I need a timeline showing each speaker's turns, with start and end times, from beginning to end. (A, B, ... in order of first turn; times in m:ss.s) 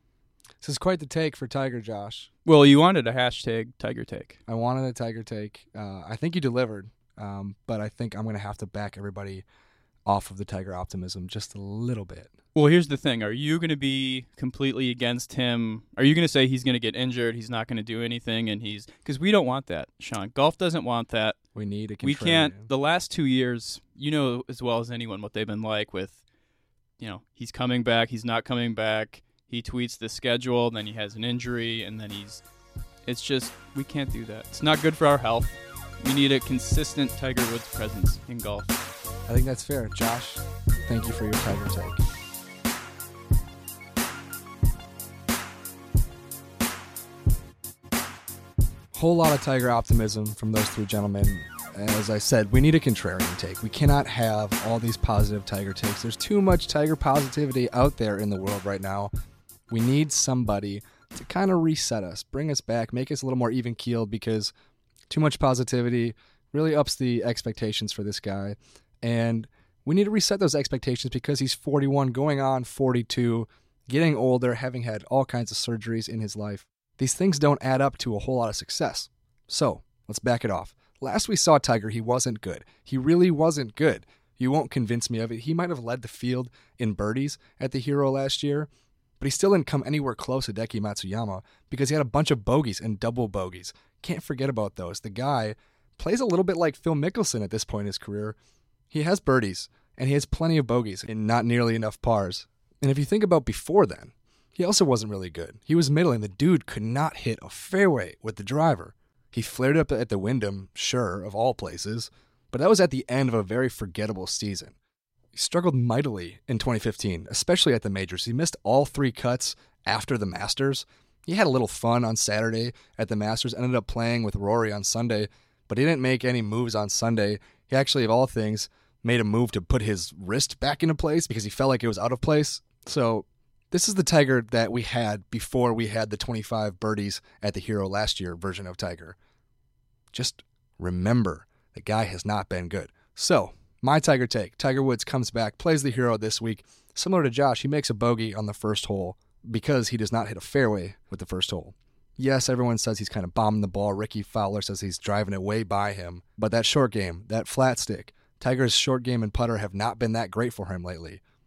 0:00.6-0:02.3 A
0:02.4-0:04.4 B
0:04.5-0:09.4 A
0:10.0-0:12.3 A
0:12.5-0:21.4 B
0:21.5-0:22.7 A
0:22.0-0:26.2 B
0:27.0-0:32.4 B
0:33.0-0:38.8 B
0:39.3-0:42.0 A
0:48.9-0:59.1 A
0:59.7-1:04.5 A
1:05.1-1:28.7 A
1:29.2-1:38.4 A
1:38.9-1:54.8 A
1:55.3-2:19.2 A
2:20.1-2:41.2 A